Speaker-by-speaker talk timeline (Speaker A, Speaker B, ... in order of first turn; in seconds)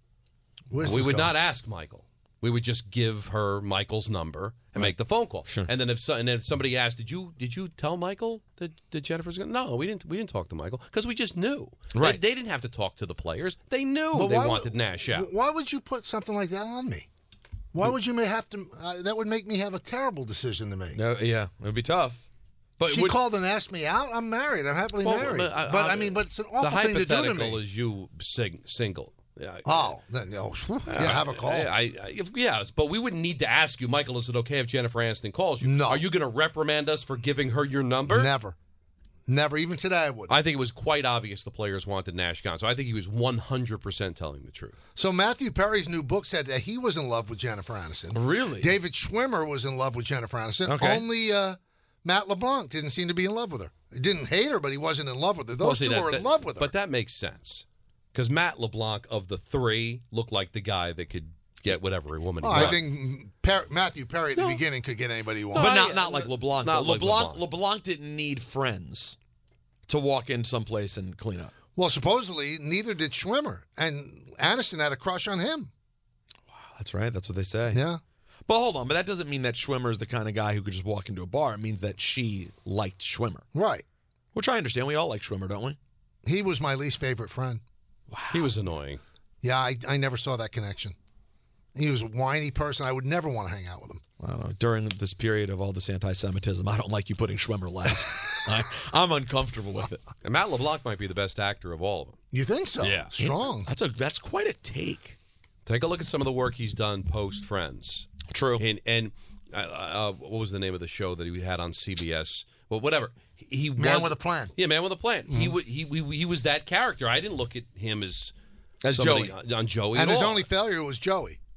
Speaker A: 0.7-1.4, 14.1-17.1, 17.7-21.0, 22.9-27.6, 29.6-31.7, 35.6-36.0, 38.1-38.5, 39.3-40.4, 45.0-56.7, 62.4-65.7, 71.7-75.7, 77.7-78.0, 83.5-83.8, 86.2-87.6, 89.4-90.9, 91.7-94.0, 102.3-103.7, 113.8-114.5, 115.3-115.5, 119.9-121.4
Speaker B: 0.8-15.3, 25.0-30.0, 30.9-38.3, 40.3-44.7, 55.6-62.8, 64.4-64.6, 65.5-67.5, 88.3-89.0, 100.2-102.2, 102.8-103.1, 105.7-118.3, 118.9-120.5
Speaker C: 11.9-12.2, 20.9-22.3, 22.8-23.2, 48.1-48.8, 50.7-51.1, 65.5-69.2, 69.9-71.5, 76.5-77.8, 78.5-83.4, 84.3-85.8, 88.1-88.5, 94.2-100.0, 103.2-105.2, 108.3-108.6, 118.8-119.3